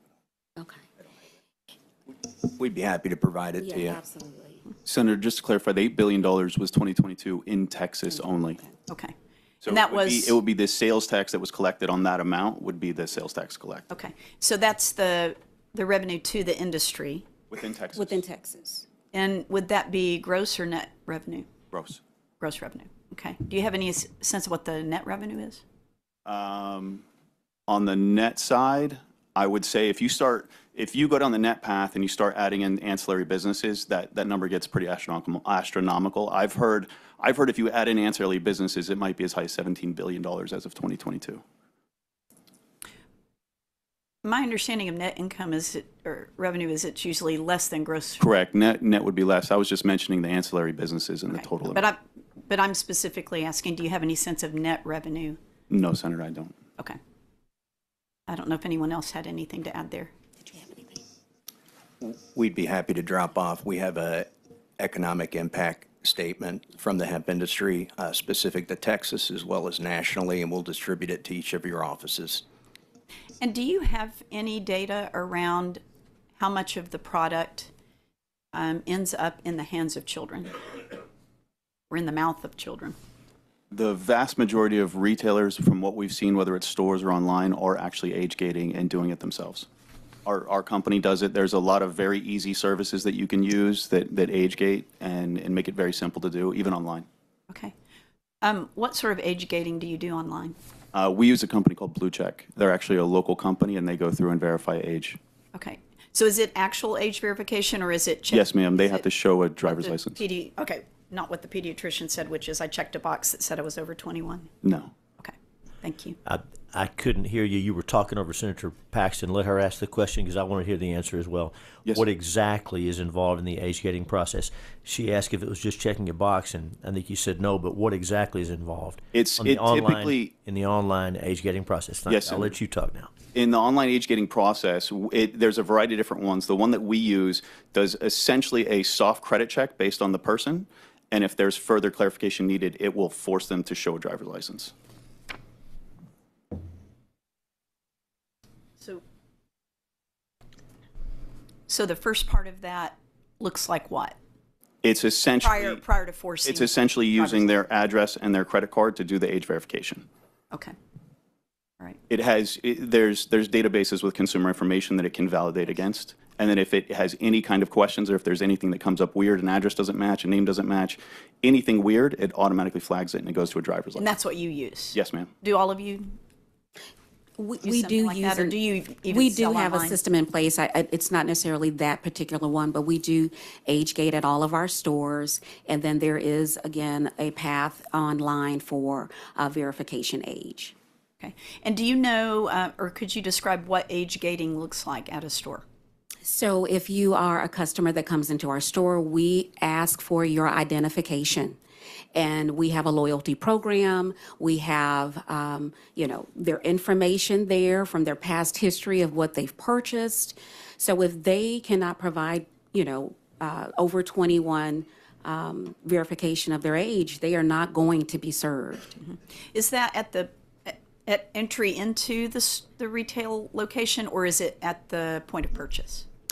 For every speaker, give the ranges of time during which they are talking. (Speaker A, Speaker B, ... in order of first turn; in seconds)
Speaker A: 0.6-0.9, 3.6-4.7, 18.0-18.9, 60.4-61.0, 177.4-190.7, 196.2-201.6, 202.2-218.9
Speaker B: 2.6-4.0, 62.0-72.4
Speaker C: 4.8-8.6, 9.6-13.9, 17.5-18.2, 21.7-22.0, 26.3-27.1, 27.7-41.4, 48.2-51.9, 55.7-56.6, 83.7-89.7, 90.2-97.1, 100.9-105.2, 108.3-110.2, 114.6-114.9, 129.1-130.3, 132.1-132.6, 133.3-144.7, 154.8-155.8, 156.4-160.1, 162.1-174.1, 174.9-175.3
Speaker D: 8.9-9.1, 9.7-10.4, 13.9-17.3, 19.1-21.5, 22.4-25.6, 44.2-48.2, 51.3-55.4, 58.3-60.1, 73.4-75.8, 76.4-77.7, 78.5-80.6, 81.9-83.0, 98.4-100.6, 105.5-109.1, 109.6-114.5, 115.2-116.2, 151.7-154.2, 155.4-157.6, 174.0-176.2, 177.6-180.0, 191.2-195.6, 219.0-226.1
Speaker E: 116.3-133.1